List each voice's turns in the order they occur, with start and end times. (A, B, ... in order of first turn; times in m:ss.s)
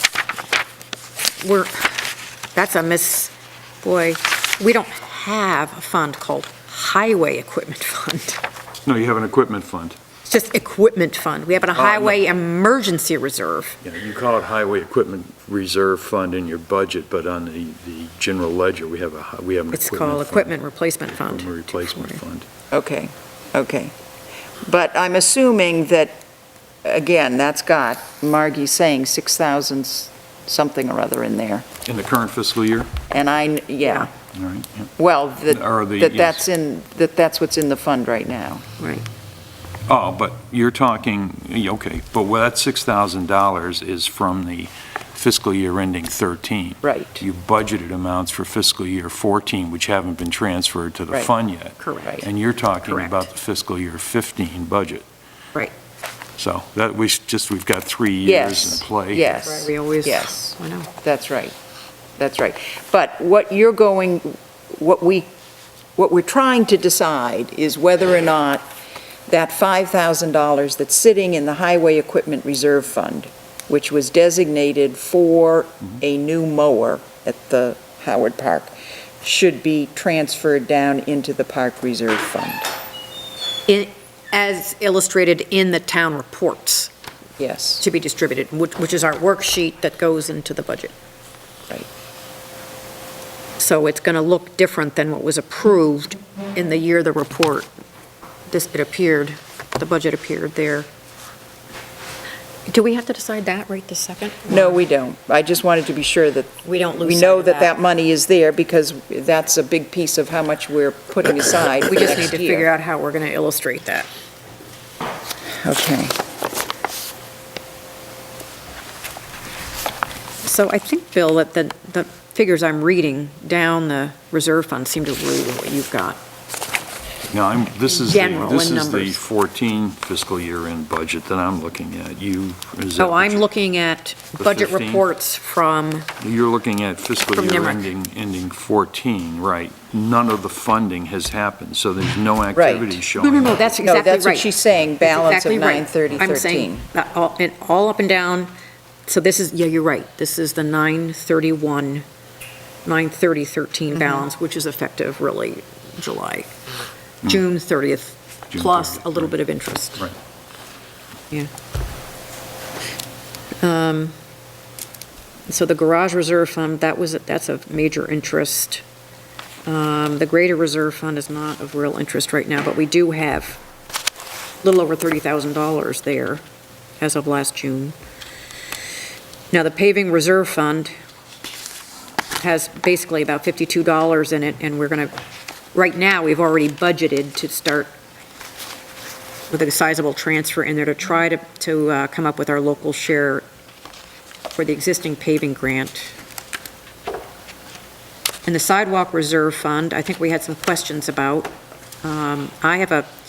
0:01.4-0:08.4 A
0:08.8-0:10.0 B
0:10.2-0:13.8 A
0:11.7-0:12.2 B
0:13.8-0:20.6 B
0:19.7-0:22.2 A
0:21.1-0:22.5 B
0:22.7-0:23.9 C
0:24.6-0:26.2 C
0:26.8-0:31.6 C
0:31.8-0:32.9 B
0:33.1-0:34.1 C
0:34.3-0:34.9 B
0:35.0-0:38.6 C
0:35.5-0:36.4 B
0:38.8-0:39.0 A
0:39.9-0:55.0 B
0:46.8-0:47.2 C
0:51.8-0:52.3 A
0:52.8-0:53.3 A
0:56.4-0:59.4 B
0:58.2-1:01.6 C
0:59.4-1:00.9 A
1:02.2-1:05.3 C
1:06.0-1:08.7 C
1:09.3-1:22.6 C
1:23.7-1:26.9 A
1:27.4-1:27.8 C
1:27.8-1:30.9 A
1:33.6-1:37.7 A
1:38.5-1:40.9 A
1:42.7-1:44.8 A
1:44.5-1:52.7 C
1:46.6-1:47.7 A
1:51.9-1:54.1 A
1:55.6-1:56.1 C
2:00.4-2:06.2 A
2:07.3-2:13.4 B
2:07.9-2:09.2 A
2:13.0-2:16.1 A
2:14.4-2:15.0 B
2:16.2-2:23.7 B
2:17.3-2:17.8 A
2:22.5-2:23.0 C
2:23.1-2:28.5 A
2:23.8-2:26.8 C
2:29.1-2:32.0 A
2:32.8-2:36.5 A
2:33.9-2:34.2 C
2:37.2-2:40.1 A
2:38.5-2:39.3 B
2:43.6-2:44.1 A
2:45.5-2:48.8 A
2:49.6-2:53.6 A
2:54.6-2:56.4 A
2:57.0-2:58.0 A
2:59.5-3:00.9 A
3:02.4-3:05.1 A
3:05.7-3:07.9 A
3:09.5-3:13.4 A
3:14.5-3:16.1 A
3:18.4-3:21.5 A
3:22.0-3:23.1 A